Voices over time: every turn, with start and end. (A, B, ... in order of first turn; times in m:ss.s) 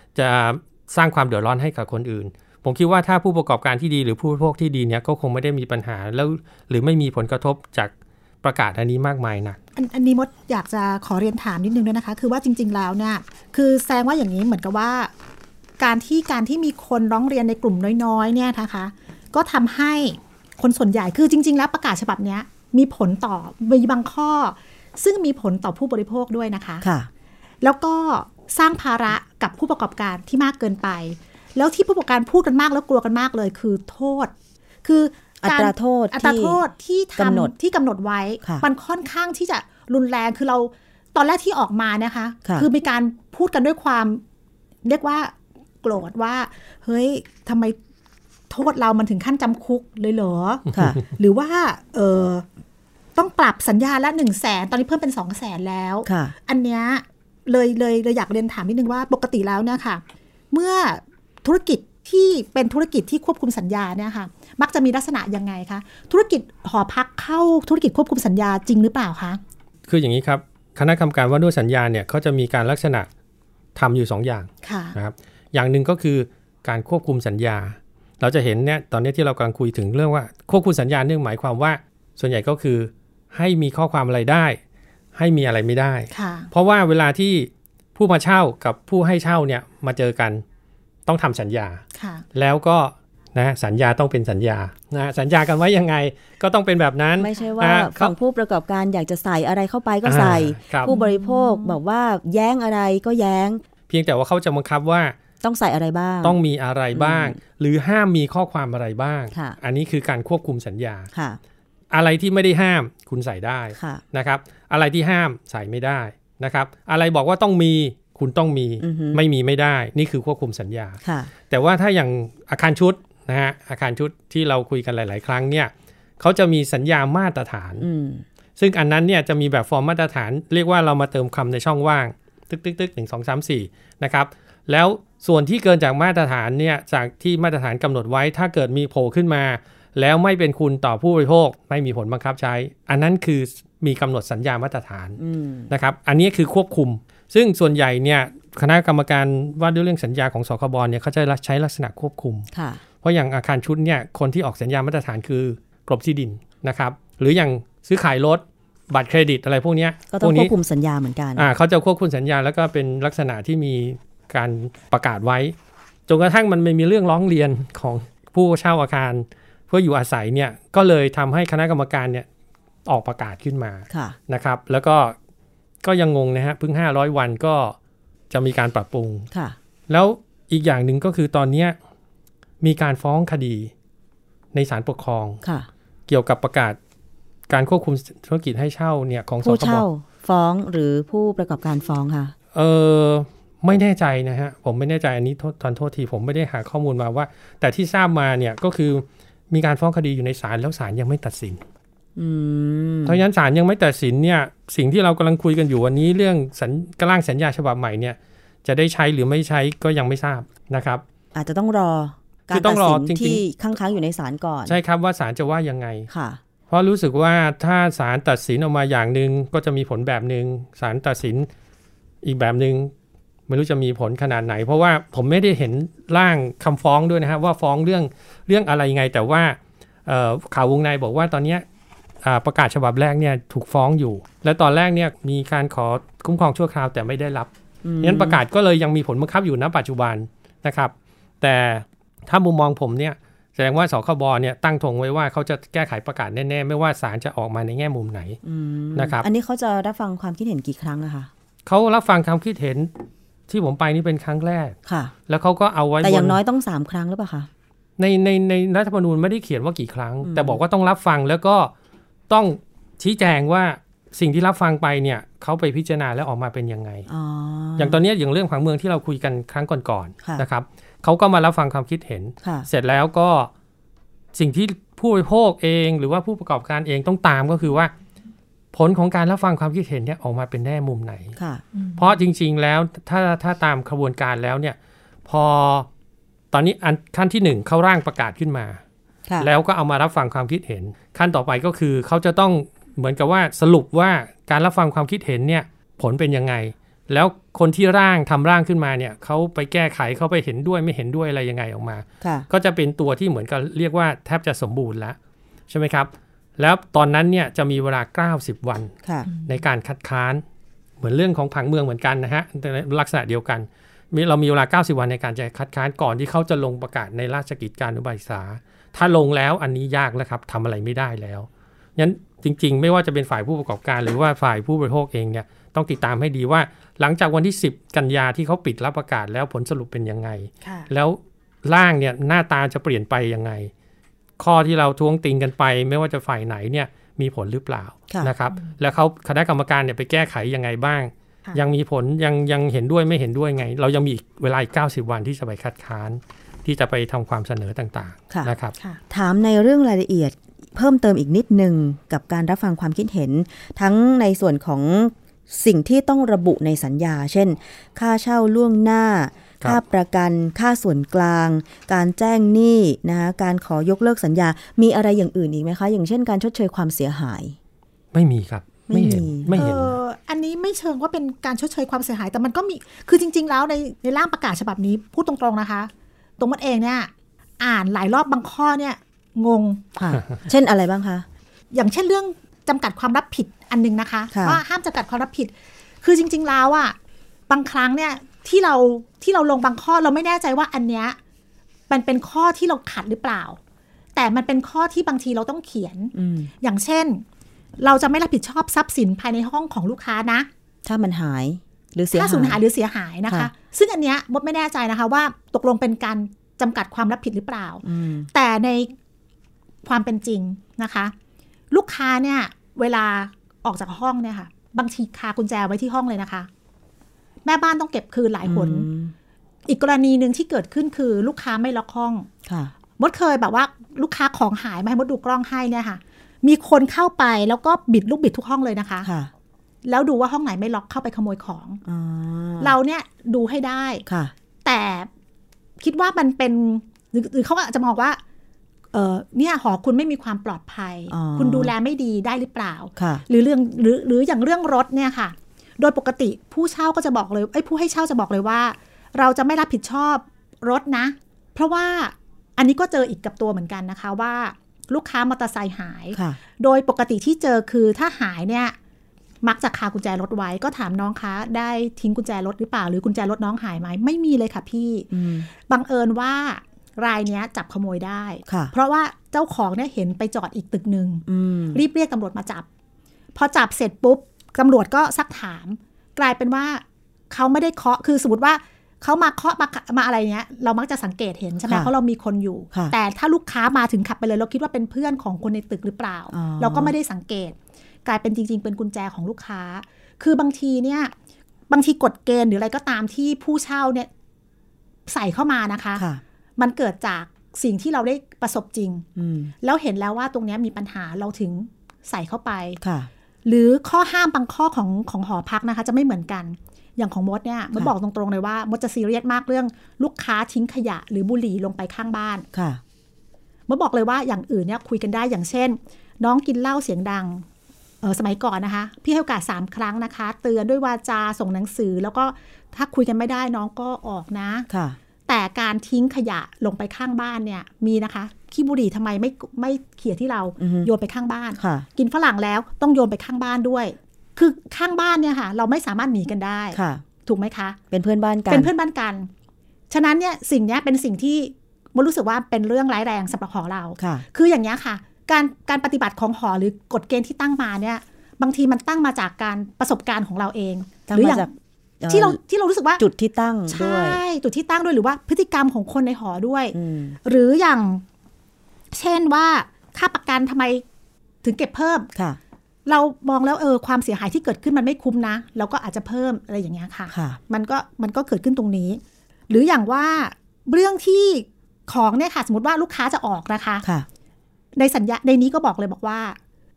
0:00.1-0:07.9 A
0:08.4-0:09.6 A
0:09.8-0:15.1 B
0:15.8-0:26.8 B
0:26.8-0:27.1 C
0:27.6-0:34.3 B
0:34.8-0:44.2 B
0:35.4-0:36.6 C
0:37.2-0:37.5 C
0:44.8-0:47.8 B
0:48.5-0:52.4 B
0:50.7-0:51.0 C
0:53.2-1:09.4 B
0:56.0-0:56.3 C
1:09.9-1:13.1 A
1:13.8-1:24.6 A
1:14.6-1:15.0 B
1:25.1-1:30.4 A
1:26.1-1:26.5 B
1:31.0-1:31.8 A
1:31.9-1:32.2 B
1:32.3-1:38.1 A
1:37.2-1:43.6 C
1:40.0-1:40.9 A
1:40.8-1:41.8 B
1:43.9-1:45.1 A
1:45.4-1:46.4 C
1:46.2-1:51.1 A
1:46.9-1:47.4 C
1:51.1-1:51.4 C
1:51.9-2:07.9 A
1:53.7-1:54.0 C
1:58.8-1:59.2 C
2:01.0-2:01.3 C
2:07.8-2:08.2 C
2:08.6-2:25.2 A
2:25.2-2:25.7 C
2:25.7-2:32.5 A
2:32.5-2:32.8 C
2:33.0-2:40.5 A
2:40.1-2:41.5 C
2:41.4-2:45.5 A
2:46.1-2:52.2 A
2:52.8-2:55.2 A
2:53.9-2:54.2 C
2:55.8-2:57.8 A
2:58.3-2:59.3 A
2:59.9-3:01.8 A
3:02.6-3:03.7 A
3:04.5-3:05.4 A
3:05.4-3:05.7 C
3:06.1-3:06.8 A
3:07.5-3:09.8 A
3:09.4-3:12.3 C
3:12.5-3:21.6 A
3:22.2-3:23.2 C
3:23.0-3:31.0 A
3:31.3-3:34.8 C
3:32.5-3:33.4 A
3:34.6-3:36.1 A
3:36.1-3:36.4 C
3:36.7-3:41.5 A
3:42.2-3:42.9 A
3:43.5-3:51.6 A
3:52.2-3:57.5 A
3:57.8-3:58.4 C
3:58.0-4:08.4 A
4:08.4-4:11.3 C
4:08.9-4:09.2 A
4:11.6-4:12.9 A
4:13.5-4:14.8 A
4:14.8-4:15.1 C
4:15.3-4:16.4 A
4:16.0-4:17.5 C
4:18.0-4:21.7 A
4:20.2-4:20.6 C
4:22.3-4:27.1 A
4:27.1-4:28.0 C
4:27.8-4:33.5 A
4:34.3-4:37.9 A
4:38.7-4:41.3 A
4:41.4-4:41.6 C
4:42.0-4:45.9 A
4:46.5-4:48.8 A
4:49.4-5:05.2 A
5:02.2-5:02.5 C
5:05.7-5:10.4 A
5:11.0-5:33.7 A
5:30.6-5:30.9 B
5:34.4-5:48.7 A
5:49.1-6:07.6 C
6:08.1-6:10.0 A
6:08.9-6:09.7 C
6:09.5-6:19.9 B
6:20.0-6:21.2 C
6:21.7-6:27.0 B
6:24.3-6:24.6 C
6:27.5-6:31.2 B
6:31.9-6:33.6 B
6:34.2-6:37.2 B
6:36.1-6:36.5 C
6:37.8-6:40.5 B
6:40.8-6:42.6 C
6:42.1-6:48.9 B
6:47.8-6:48.3 C
6:49.8-6:51.1 B
6:51.7-6:56.5 B
6:57.4-6:58.9 B
6:58.4-6:59.1 C
6:59.6-7:02.3 B
7:02.4-7:02.7 C
7:03.0-7:09.1 B
7:09.0-7:09.3 C
7:09.8-7:11.8 B
7:11.8-7:12.7 C
7:12.6-7:14.0 B
7:14.0-7:14.3 C
7:14.6-7:15.1 B
7:15.8-7:18.2 B
7:18.9-7:38.8 B
7:21.1-7:21.7 C
7:23.0-7:23.2 C
7:36.1-7:36.4 C
7:39.4-7:52.6 B
7:45.1-7:45.5 C
7:48.4-7:48.7 C
7:51.2-7:51.8 C
7:53.3-8:11.1 B
8:06.3-8:06.9 C
8:11.7-8:14.1 B
8:15.1-8:16.0 B
8:16.0-8:16.2 C
8:16.6-8:19.0 B
8:19.2-8:19.5 C
8:19.6-8:22.8 B
8:22.8-8:23.1 C
8:23.4-8:32.5 B
8:32.5-8:32.8 C
8:33.7-8:37.4 B
8:38.0-8:44.7 B
8:44.7-8:45.0 C
8:45.3-8:57.8 B
8:50.6-8:50.9 C
8:51.6-8:51.8 C
8:56.7-8:57.0 C
8:57.9-8:58.7 C
8:58.5-8:59.3 B
8:59.9-9:11.5 B
9:04.0-9:04.2 C
9:11.1-9:11.5 C
9:12.0-9:12.4 C
9:12.1-9:13.0 B
9:13.0-9:14.2 C
9:13.7-9:18.0 B
9:16.7-9:17.2 C
9:18.9-9:20.8 B
9:21.4-9:22.1 B
9:22.8-9:33.8 B
9:27.1-9:27.4 C
9:34.8-9:36.4 B